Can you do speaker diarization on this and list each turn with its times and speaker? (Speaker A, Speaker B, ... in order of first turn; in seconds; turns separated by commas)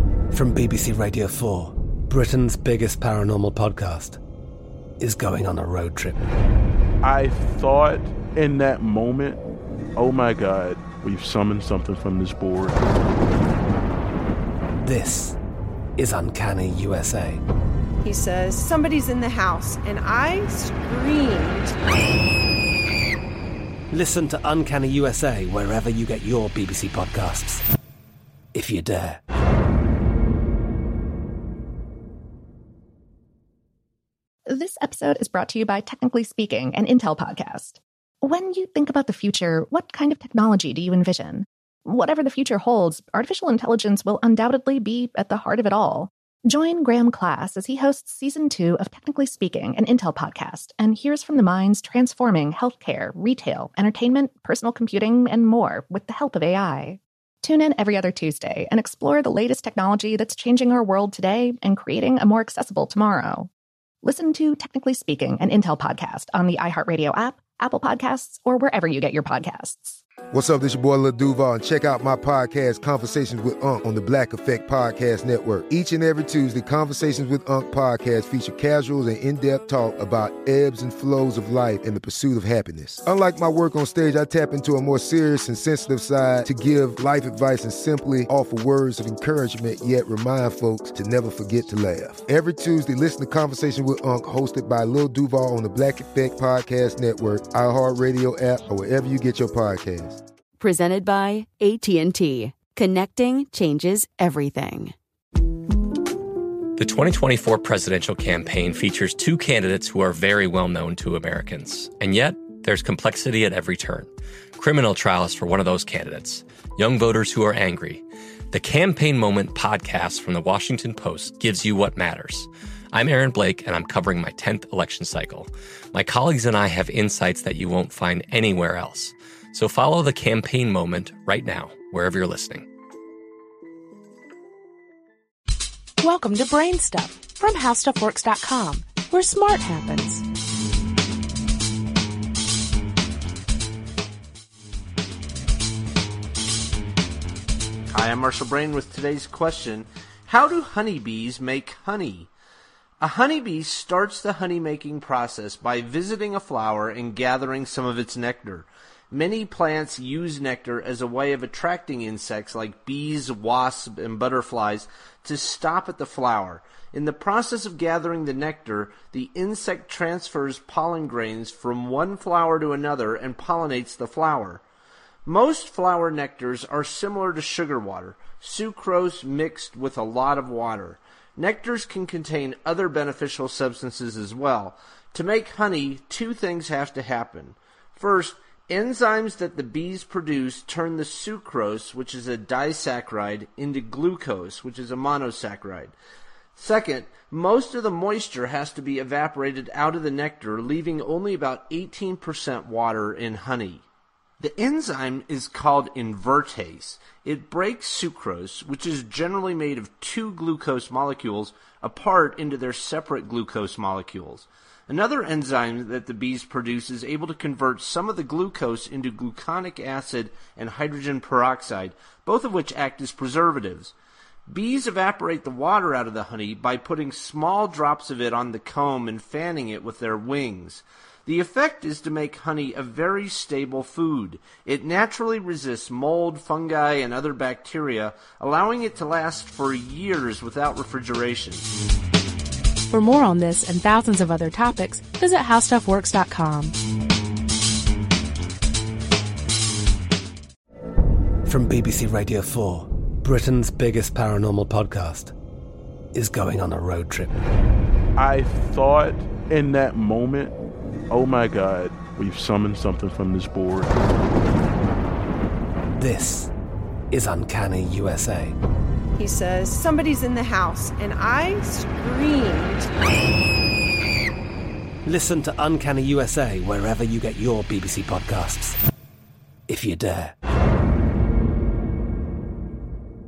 Speaker A: 0.3-4.2, Speaker A: 5.0-6.3, Speaker B: 7.0-9.4, Speaker B: 10.0-12.8, Speaker A: 14.8-15.4, Speaker A: 16.0-17.4, Speaker C: 18.0-21.8, Speaker A: 23.9-27.6, Speaker A: 28.5-29.2, Speaker D: 34.5-63.5, Speaker D: 64.0-70.0, Speaker E: 70.3-100.2, Speaker F: 100.6-104.9, Speaker G: 106.8-132.7, Speaker H: 136.0-140.2, Speaker I: 147.9-152.3, Speaker I: 153.0-174.6, Speaker I: 175.3-195.9, Speaker I: 196.6-203.8, Speaker I: 204.4-223.9, Speaker I: 224.5-241.7, Speaker H: 242.9-246.7, Speaker A: 251.5-255.3, Speaker A: 256.1-257.4, Speaker B: 258.2-260.5, Speaker B: 261.1-263.9, Speaker A: 266.0-266.5, Speaker A: 267.1-268.6, Speaker C: 269.2-272.9, Speaker A: 275.1-278.8, Speaker A: 279.7-280.4